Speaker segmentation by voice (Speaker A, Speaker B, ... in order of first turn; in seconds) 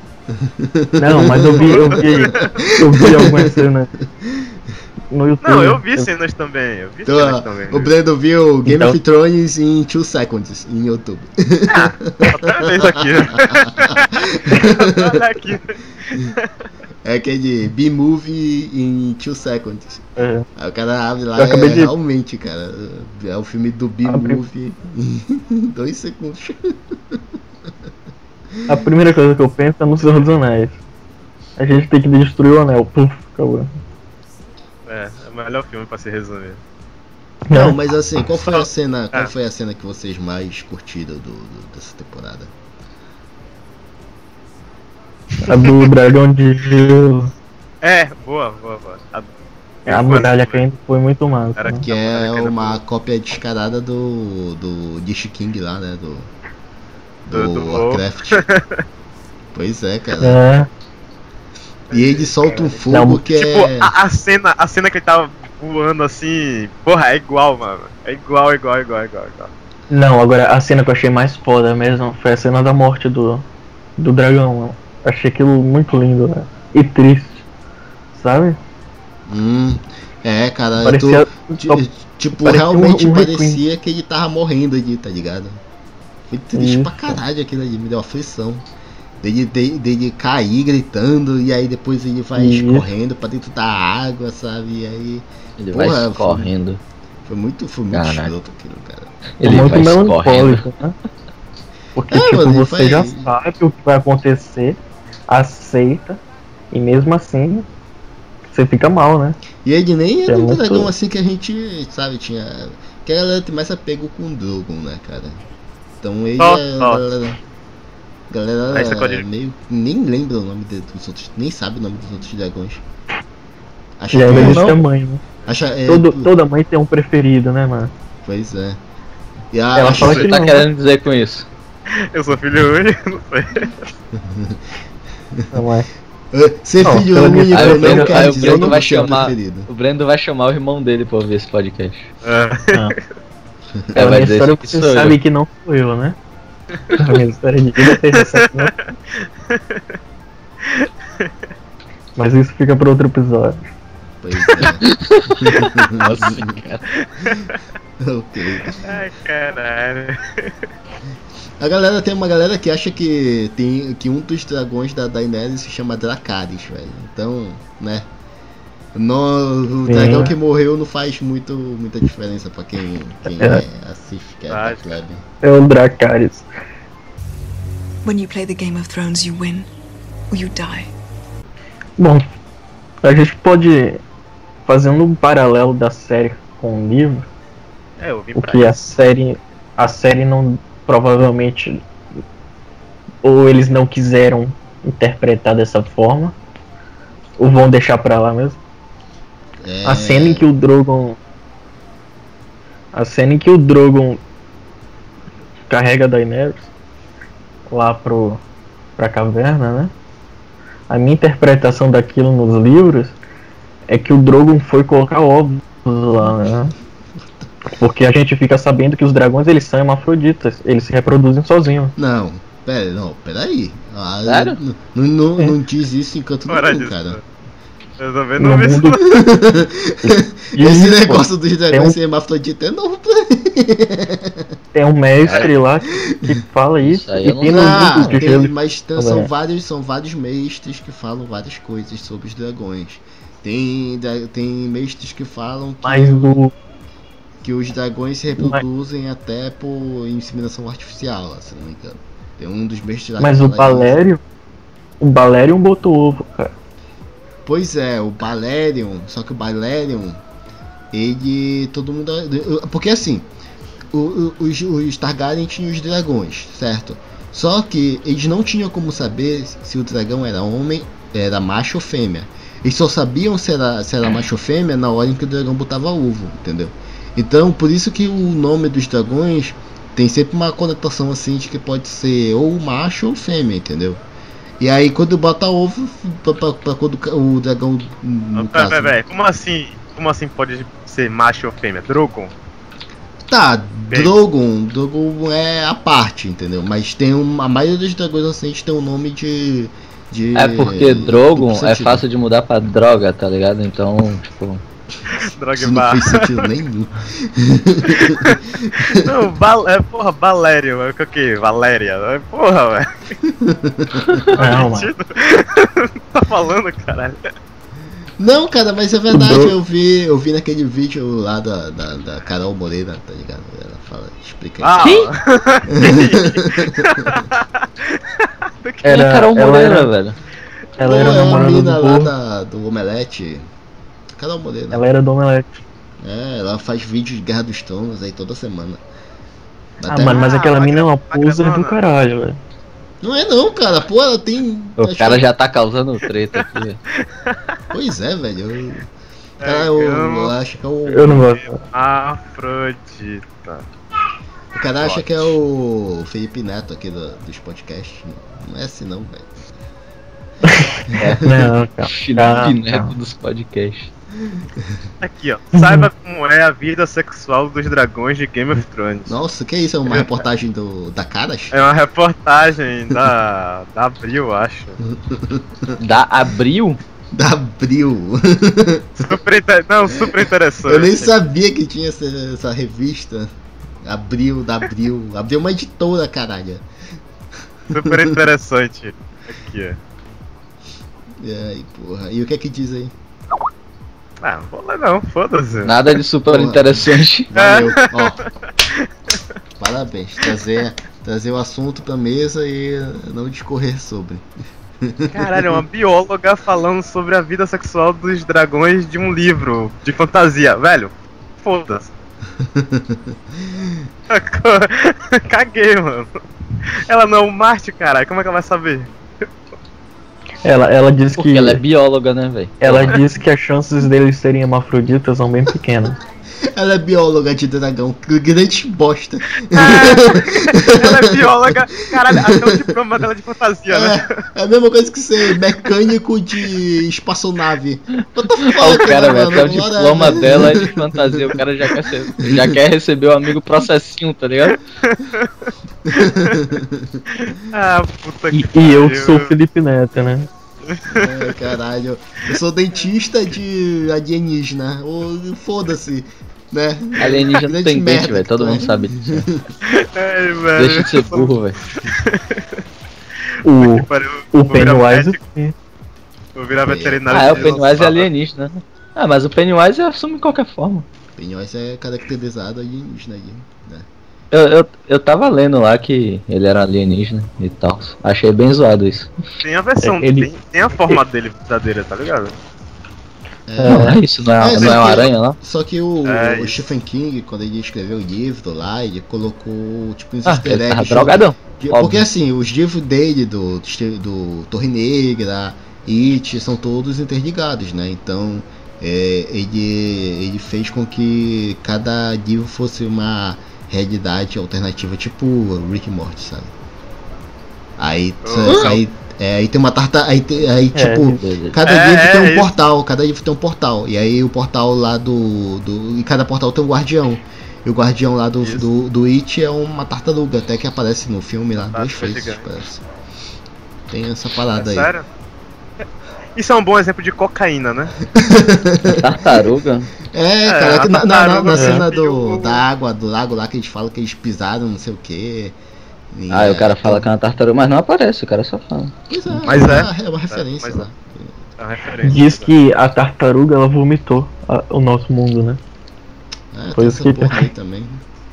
Speaker A: 0.3-3.7, 4.2-4.5, 7.1-15.2, 17.0-20.0, 20.6-27.2, 37.5-42.5, 51.9-56.3, 57.3-58.4, 59.5-60.4, 61.9-63.9, 79.3-85.6, 86.3-88.7, 89.2-96.5, 97.3-99.2, 102.1-103.3, 109.6-115.4, 116.0-117.4, 118.3-122.8, 124.0-124.8, 125.5-126.3, 128.2-128.8, 129.5-130.3, 134.2-134.6, 136.3-139.7, 154.2-156.6, 158.0-159.0, 161.6-168.1, 168.9-175.2, 199.6-200.5, 222.0-227.2, 229.1-234.5, 237.5-246.4, 247.4-254.0, 257.4-260.2, 260.9-263.3, 263.9-284.0, 284.6-289.0, 293.3-302.0, 305.6-309.1, 313.3-314.2, 318.2-325.0, 325.7-327.2, 330.8-333.5, 334.2-334.8, 336.0-338.8, 339.8-340.3, 343.0-345.2, 347.7-348.9, 349.4-351.3, 354.5-359.5, 360.9-361.5, 369.1-371.6, 374.8-375.8, 377.1-379.2, 379.9-383.3, 383.8-386.7, 387.7-388.2, 391.2-392.9, 396.3-396.7, 397.3-398.2, 399.6-404.3, 404.8-405.6, 412.4-413.8, 426.5-431.6, 432.1-432.6, 433.7-441.4, 442.2-442.6, 445.9-447.0, 450.9-459.4, 466.6-467.7, 471.2-473.9, 483.5-506.5, 507.8-522.8, 523.9-524.9, 528.1-529.5, 530.1-535.6, 536.1-537.1, 539.1-541.4, 546.5-548.0
Speaker B: 1.0-3.9, 5.1-6.1, 8.7-9.0, 20.2-20.5, 21.4-21.9, 24.1-24.4, 28.7-30.8, 31.6-33.7, 37.5-37.8, 45.4-47.3, 49.9-51.9, 60.2-60.7, 62.9-63.2, 69.9-73.5, 74.0-77.4, 78.1-78.6, 80.8-81.8, 82.3-83.6, 86.5-87.2, 92.3-92.9, 99.4-101.0, 102.0-106.2, 106.7-107.7, 108.5-109.4, 110.3-110.9, 124.1-125.2, 125.9-127.9, 129.8-130.7, 135.5-135.9, 136.8-138.8, 143.9-146.2, 147.0-148.7, 152.2-153.7, 169.9-170.3, 173.3-173.6, 175.4-176.5, 182.0-182.2, 183.0-184.0, 184.7-187.3, 188.4-191.8, 193.2-196.4, 197.4-198.6, 199.8-201.2, 202.9-204.2, 205.7-206.7, 207.7-208.4, 209.0-209.9, 210.9-213.2, 213.9-216.7, 217.7-221.9, 228.4-229.0, 230.0-232.0, 234.7-239.3, 245.8-246.5, 248.4-248.6, 253.2-254.2, 255.0-256.5, 314.4-314.9, 319.1-319.6, 328.8-329.9, 330.8-332.1, 334.7-335.6, 339.9-342.4, 350.9-351.6, 360.4-362.9, 365.5-365.9, 420.4-421.6, 422.6-426.0, 448.3-450.3, 463.4-465.6, 479.8-480.3, 483.6-484.0, 510.7-511.2, 531.5-531.9, 542.0-545.6, 546.8-547.5
Speaker C: 1.6-2.6, 5.4-7.9, 11.7-16.7, 34.9-36.6, 38.5-39.3, 47.8-49.3, 49.9-50.6, 51.6-52.8, 57.3-58.8, 61.9-69.5, 116.4-117.0, 118.7-119.2, 131.9-133.8, 142.2-142.9, 148.1-148.8, 149.5-149.8, 150.6-151.3, 157.2-157.6, 158.8-160.6, 174.5-175.0, 188.0-188.8, 226.5-227.2, 228.0-229.2, 288.4-292.3, 305.1-306.5, 307.9-313.2, 314.3-317.2, 324.6-328.9, 340.1-341.8, 349.4-350.3, 351.3-353.6, 354.8-355.4, 365.0-369.2, 369.9-370.2, 371.5-374.8, 379.0-381.2, 387.7-389.8, 394.2-395.8, 397.4-399.2, 405.1-411.9, 414.1-416.1, 416.9-418.9, 429.5-434.1, 444.5-446.5, 447.2-449.3, 450.7-451.3, 459.7-462.4, 463.5-465.2, 466.4-468.1, 479.4-482.4, 486.1-486.6, 508.2-508.8, 511.6-512.5, 521.6-522.5, 524.5-525.1, 526.4-528.0, 530.5-532.6, 539.5-540.9, 541.6-542.5
Speaker D: 95.6-96.8, 97.9-98.3, 99.4-100.7, 124.3-124.8, 130.0-131.5, 137.5-142.1, 143.9-145.2, 154.8-156.8, 224.2-224.6, 235.2-235.5, 236.8-238.2, 300.4-304.6, 324.8-325.1, 328.9-330.2, 344.8-346.8, 361.9-363.9, 375.8-376.8, 395.6-397.3, 421.2-423.0, 438.4-444.6, 457.0-459.3, 460.6-461.6, 467.1-470.9, 474.3-479.1, 483.7-485.4, 490.3-492.1, 511.2-511.6, 528.9-529.9, 536.3-539.0
Speaker E: 178.0-179.7, 180.3-180.9